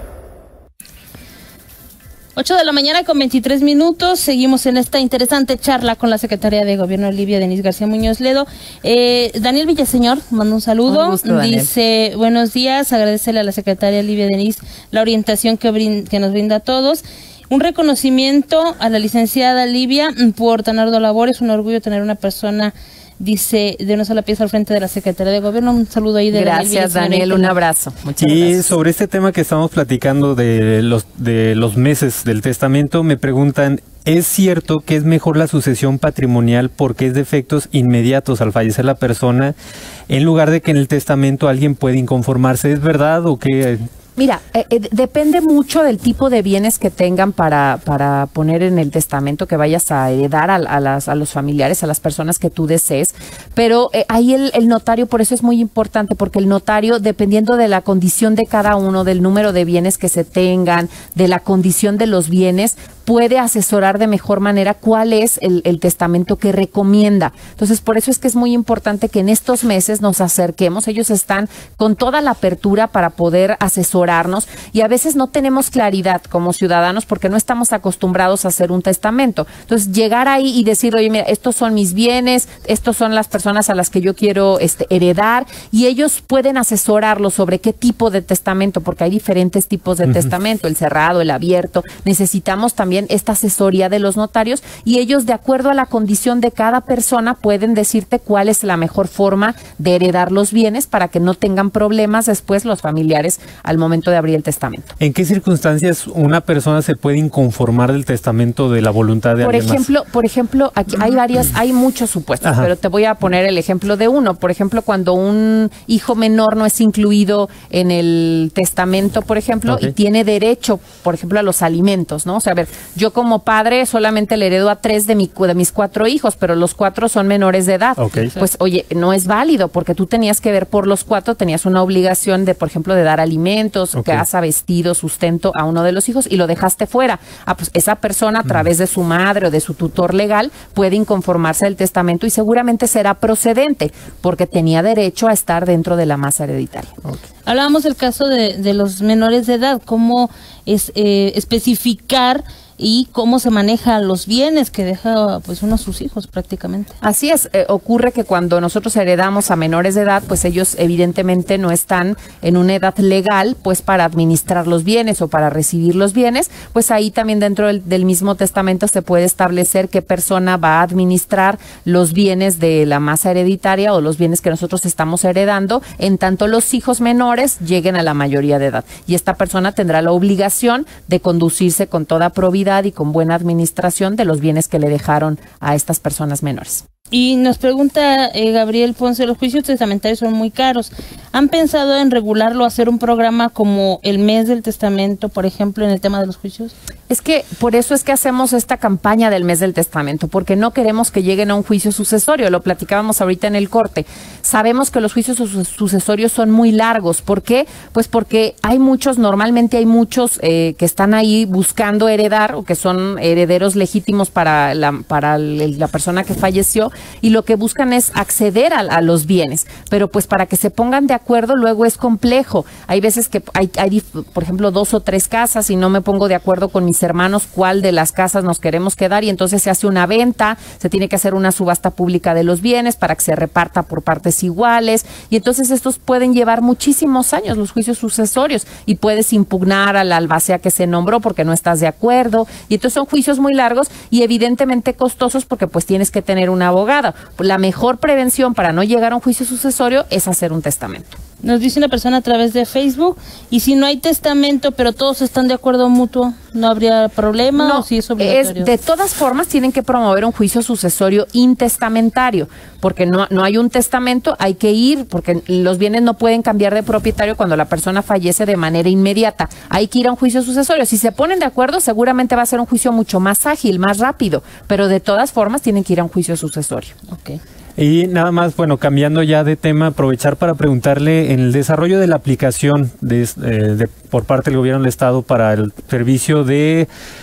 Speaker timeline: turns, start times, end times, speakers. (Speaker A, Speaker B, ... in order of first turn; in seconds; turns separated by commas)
Speaker A: 2.4-27.6, Speaker B: 10.9-11.7, Speaker B: 26.3-28.7, Speaker C: 28.2-39.5, Speaker C: 40.1-43.8, Speaker B: 44.2-104.9, Speaker C: 105.0-109.8, Speaker B: 109.4-146.9, Speaker C: 112.4-112.7, Speaker C: 128.0-128.3, Speaker C: 134.0-134.2, Speaker A: 147.5-156.9, Speaker B: 157.0-186.8, Speaker A: 187.1-196.7, Speaker B: 197.1-251.2, Speaker A: 251.4-258.7, Speaker B: 257.6-276.9, Speaker A: 277.1-277.4, Speaker C: 277.8-286.9